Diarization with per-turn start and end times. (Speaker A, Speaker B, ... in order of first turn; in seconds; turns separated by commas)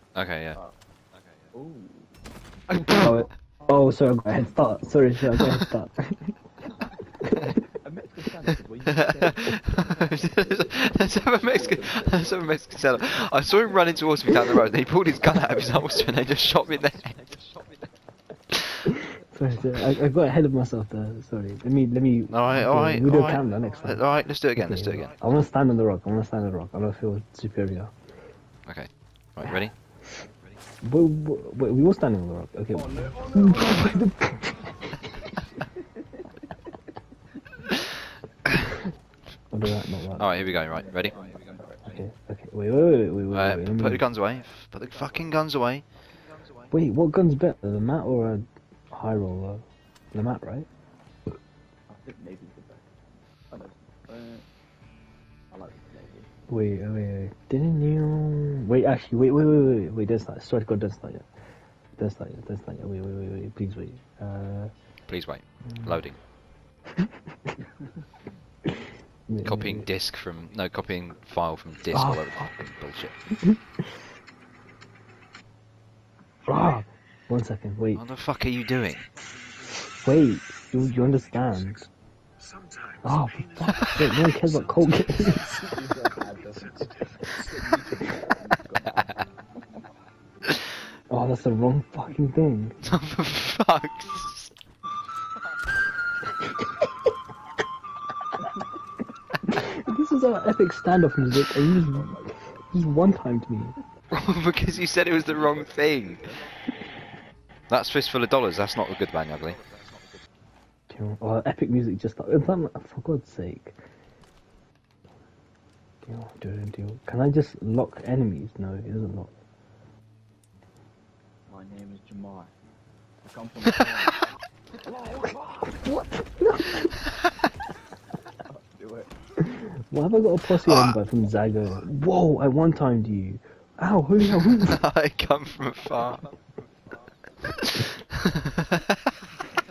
Speaker A: 0.1-0.6, Speaker B: 1.5-2.1, Speaker A: 2.7-3.1, Speaker C: 2.9-6.3, Speaker C: 7.2-7.6, Speaker B: 7.8-12.5, Speaker A: 8.8-17.2, Speaker B: 15.3-16.2, Speaker B: 17.2-17.8, Speaker C: 18.9-27.9, Speaker A: 22.3-25.1, Speaker A: 28.6-29.7, Speaker C: 30.8-35.2, Speaker C: 39.5-40.3, Speaker A: 40.2-41.1, Speaker B: 40.4-42.0, Speaker C: 41.8-44.0, Speaker A: 43.3-45.8, Speaker C: 46.7-50.6, Speaker B: 51.9-52.9, Speaker B: 53.5-54.4, Speaker B: 55.5-56.3, Speaker C: 56.5-61.2, Speaker C: 62.0-64.7, Speaker A: 65.1-66.2, Speaker C: 69.3-69.9, Speaker A: 69.4-73.1, Speaker C: 71.9-72.5, Speaker C: 73.4-73.8, Speaker C: 76.4-78.0, Speaker A: 77.9-79.1, Speaker C: 79.9-81.9, Speaker C: 83.0-85.7, Speaker B: 85.6-89.2, Speaker C: 87.2-87.6, Speaker A: 88.9-89.2, Speaker C: 91.1-92.8, Speaker A: 92.8-94.5, Speaker C: 99.5-102.2, Speaker B: 101.7-102.7, Speaker C: 102.7-103.7, Speaker A: 104.1-106.3, Speaker B: 105.2-106.5, Speaker A: 107.7-109.6, Speaker C: 110.9-113.7, Speaker C: 116.0-119.3, Speaker B: 121.5-122.5, Speaker B: 123.2-124.2, Speaker C: 125.3-127.0, Speaker B: 128.5-129.1, Speaker C: 129.4-134.8, Speaker A: 130.7-130.9, Speaker A: 134.3-136.2, Speaker A: 137.6-138.9